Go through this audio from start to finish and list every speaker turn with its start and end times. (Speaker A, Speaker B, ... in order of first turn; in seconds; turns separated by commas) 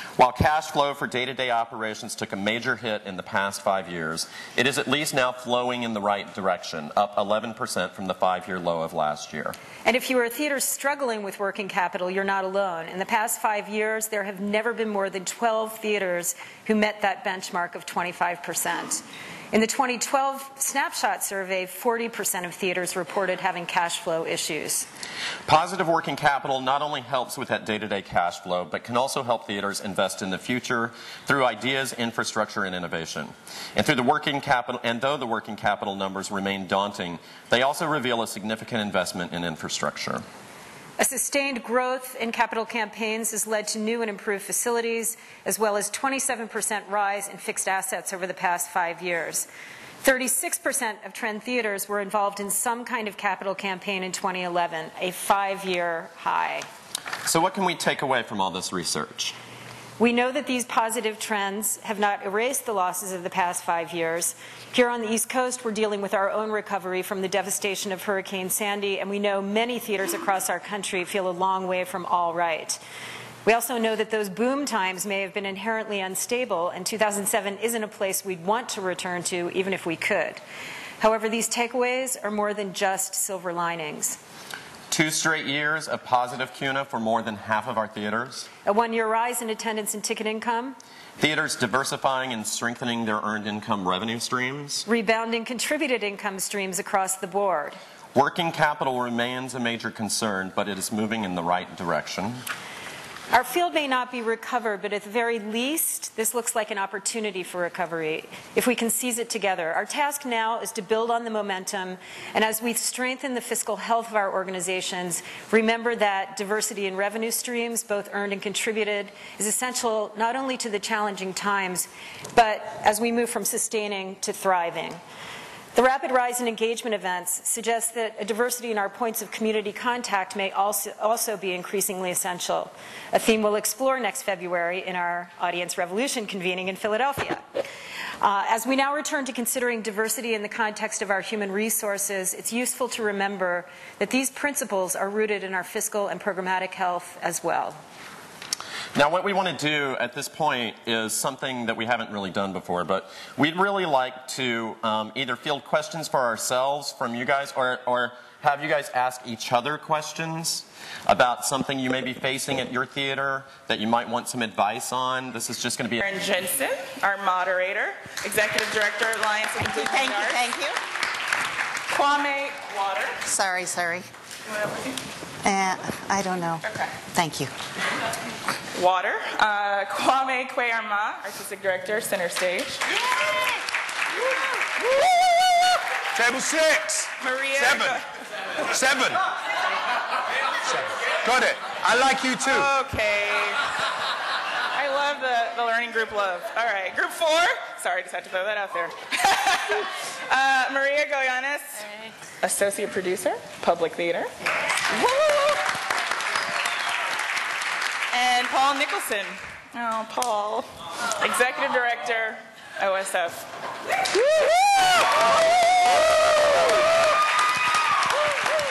Speaker A: 0.2-9.6, Speaker B: 9.8-24.9, Speaker A: 25.5-40.2, Speaker B: 41.0-49.5, Speaker B: 50.0-56.7, Speaker A: 57.2-59.4, Speaker B: 60.0-72.8, Speaker B: 73.4-80.4, Speaker B: 81.0-84.2, Speaker A: 84.9-88.5, Speaker B: 88.6-90.8, Speaker A: 91.2-94.8, Speaker B: 94.9-97.8, Speaker A: 98.1-102.4, Speaker B: 103.3-125.0, Speaker B: 125.8-137.4, Speaker B: 138.2-147.8, Speaker A: 148.9-166.0, Speaker C: 166.0-170.4, Speaker D: 169.7-170.8, Speaker C: 171.9-173.2, Speaker D: 173.2-174.1, Speaker C: 174.5-175.0, Speaker D: 175.4-177.5, Speaker C: 178.7-182.9, Speaker E: 185.0-185.6, Speaker E: 186.1-188.0, Speaker C: 187.2-188.0, Speaker E: 188.7-189.3, Speaker E: 190.7-192.7, Speaker C: 192.4-193.6, Speaker C: 194.7-204.3, Speaker C: 204.9-205.6, Speaker C: 208.1-213.4, Speaker C: 214.1-214.9